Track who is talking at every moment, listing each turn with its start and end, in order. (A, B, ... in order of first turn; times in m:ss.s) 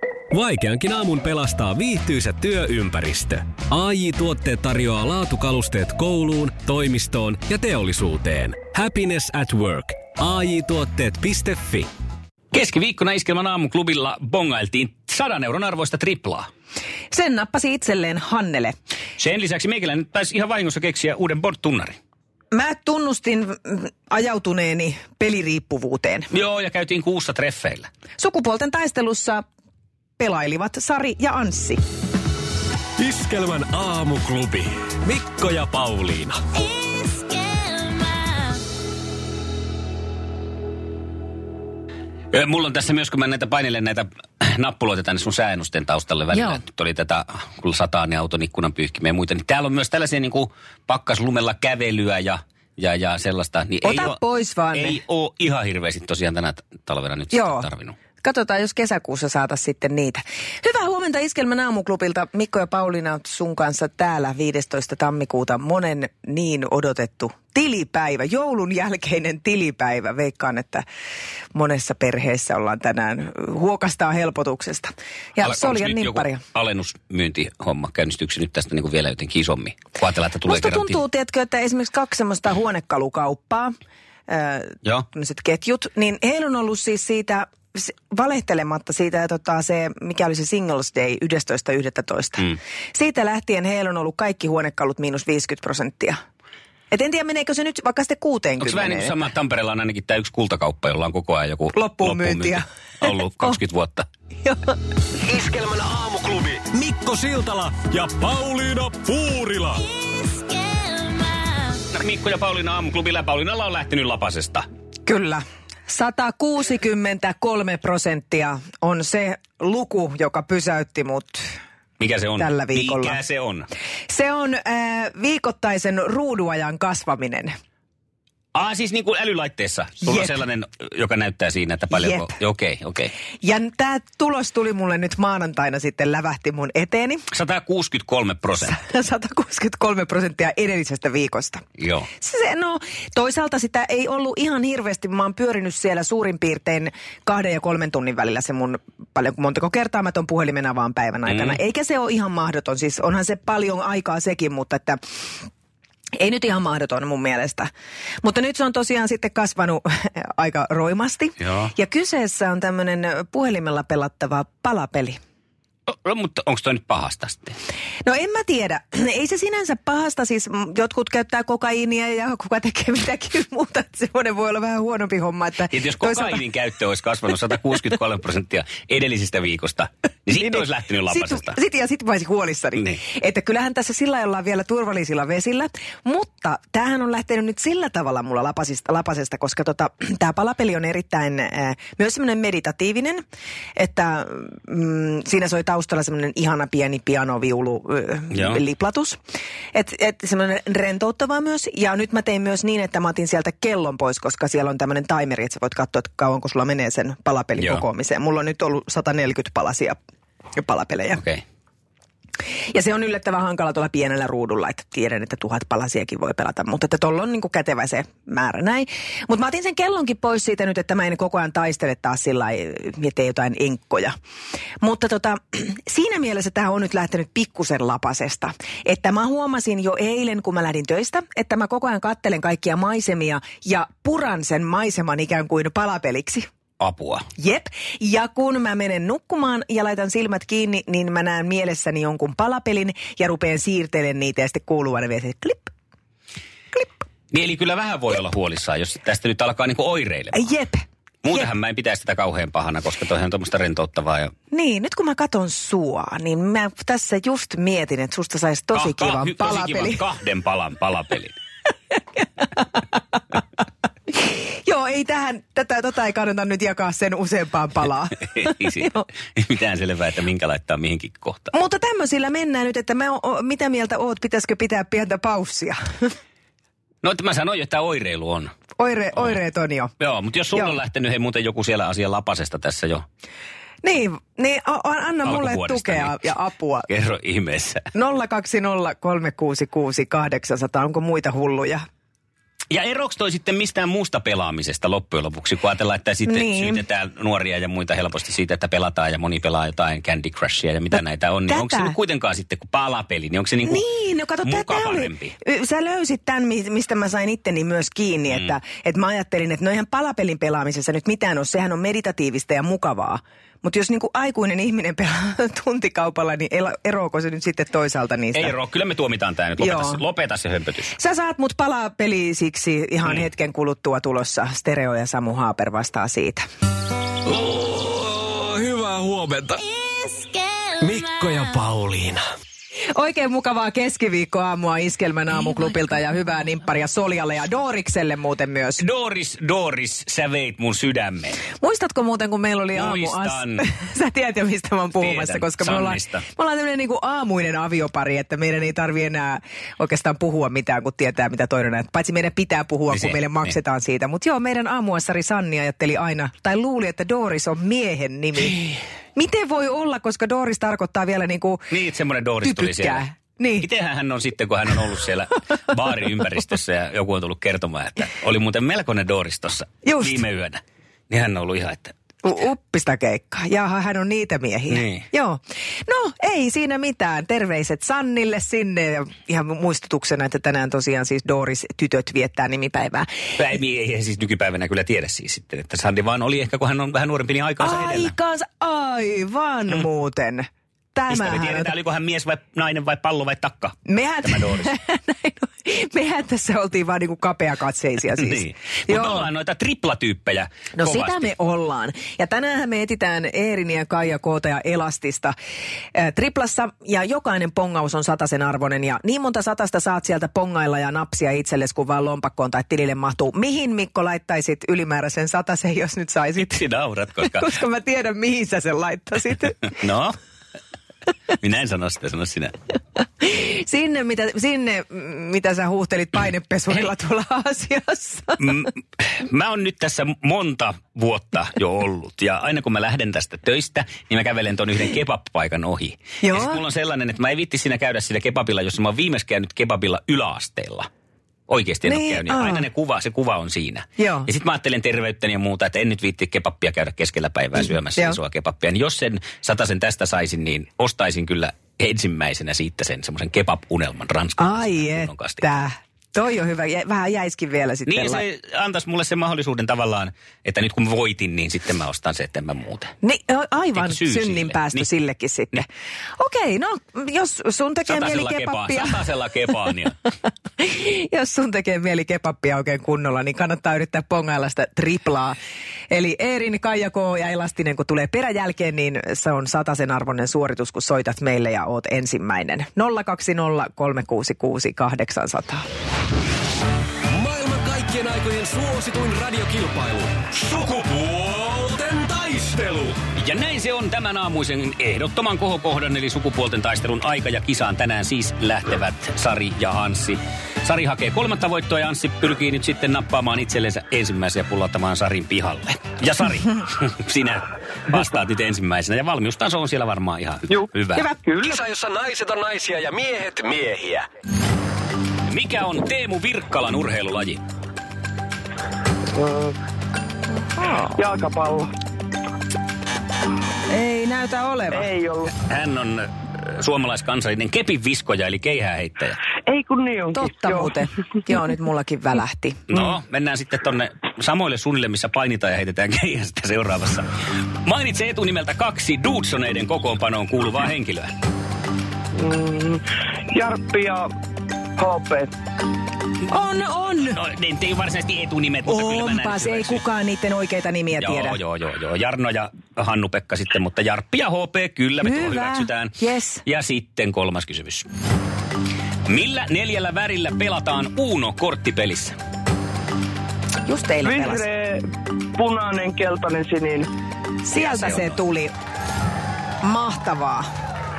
0:00.3-0:11.9 A
0:12.5-0:16.5 B
0:17.1-0:18.7 C
0:19.2-0:22.0 B
0:22.5-0:26.3 C
0:26.3-0:27.9 B
0:28.2-0:29.4 C
0:30.2-0:31.8 C
0:33.0-0:36.4 A
0:36.6-0:38.6 D
0:42.3-0:54.2 B
0:53.8-0:55.0 C
0:54.7-0:58.0 B
0:57.3-0:57.6 C
0:58.2-1:10.8 C
1:11.5-1:16.4 C
1:15.4-1:21.0 B
1:20.4-1:23.7 C
1:24.3-1:36.2 C
1:36.9-1:39.2 C
1:38.6-1:44.1 B
1:41.7-1:43.6 C
1:44.4-1:44.7 C
1:45.2-1:49.9 A
1:50.0-1:51.8 D
1:51.9-1:54.6 B
1:55.0-2:01.4 C
2:02.0-2:03.7 B
2:02.4-2:03.2 C
2:04.1-2:07.5 C
2:08.5-2:13.1 B
2:10.0-2:10.4 C
2:11.9-2:12.3 C
2:13.4-2:17.2 C
2:17.3-2:18.8 B
2:18.5-2:21.6 C
2:21.8-2:22.1 B
2:22.2-2:35.0 C
2:31.3-2:31.6 B
2:36.2-2:37.7 C
2:38.2-2:45.2 C
2:41.4-2:41.7 B
2:45.9-2:47.6 B
2:48.0-2:56.4 C
2:55.7-3:01.6 B
3:00.4-3:13.2 C
3:13.8-3:19.2 C
3:18.3-3:18.6 B
3:19.7-3:30.0 C
3:27.6-3:27.8 B
3:30.6-3:31.2 C
3:31.1-3:31.4 B
3:32.7-3:44.1 C
3:44.8-3:56.5 C
3:56.8-3:57.2 B
3:57.4-4:05.7 C
4:07.3-4:10.5 B
4:10.3-4:11.5 C
4:11.2-4:14.3 B
4:14.5-4:20.0 C
4:18.7-4:21.3 B
4:24.2-4:28.9 C
4:28.3-4:31.5 B
4:31.5-4:36.1 C
4:37.0-4:38.5 B
4:38.8-4:39.9 C
4:40.0-4:43.0 B
4:43.8-4:46.9 C
4:45.2-4:46.1 B
4:46.9-4:47.9 B
4:47.9-4:51.8 C
4:52.7-5:03.8 B
4:56.2-4:56.8 C
5:00.9-5:02.0 C
5:03.6-5:18.5 C
5:04.4-5:05.3 B
5:18.3-5:20.9 B
5:19.6-5:20.0 C
5:21.0-5:26.4 C
5:27.2-5:29.8 A
5:29.8-5:30.7 D
5:30.8-5:32.2 A
5:32.9-5:38.8 C
5:38.8-5:41.4 B
5:41.6-6:01.7 C
5:42.7-5:43.6 B
5:45.0-5:46.2 B
5:52.9-5:53.5 B
6:01.7-6:03.0 B
6:02.4-6:03.7 C
6:03.6-6:11.9 B
6:09.8-6:10.2 C
6:12.2-6:23.1 C
6:14.7-6:15.0 B
6:23.4-6:28.1 B
6:27.6-6:31.7 C
6:31.1-6:34.7 B
6:33.8-6:39.3 C
6:38.2-6:41.3 B
6:40.8-6:45.3 C
6:45.9-6:56.6 C
6:56.4-6:57.5 B
6:57.2-6:59.7 C
6:59.7-7:00.1 B
7:01.4-7:02.5 B
7:03.2-7:08.6 C
7:08.4-7:20.9 B
7:16.2-7:16.6 C
7:21.5-7:35.4 B
7:21.8-7:22.7 C
7:24.0-7:24.3 C
7:34.4-7:38.2 C
7:37.9-7:42.9 B
7:43.0-7:45.6 C
7:43.8-7:44.9 B
7:46.2-7:49.1 C
7:47.9-7:50.0 B
7:50.6-7:55.4 C
7:55.9-8:05.6 C
8:07.1-8:13.0 A
8:13.2-8:31.1 B
8:30.5-8:31.6 E
8:31.4-8:34.0 A
8:35.3-8:37.4 B
8:39.1-8:39.5 E
8:40.5-8:41.0 C
8:41.0-8:41.7 E
8:43.7-8:44.9 C
8:44.7-8:45.3 E
8:45.4-8:49.2 B
8:49.5-8:50.8 E
8:50.1-8:52.6 C
8:52.7-8:57.0 B
8:57.6-9:01.1 B
9:02.2-9:04.1 E
9:04.8-9:05.3 E
9:06.3-9:07.2 C
9:07.0-9:09.8 B
9:08.6-9:11.4 C
9:11.0-9:17.8 B
9:15.0-9:16.4 C
9:19.1-9:22.2 B
9:23.6-9:24.4 C
9:24.0-9:26.9 E
9:27.4-9:28.5 C
9:27.5-9:28.2 B
9:29.6-9:30.4 C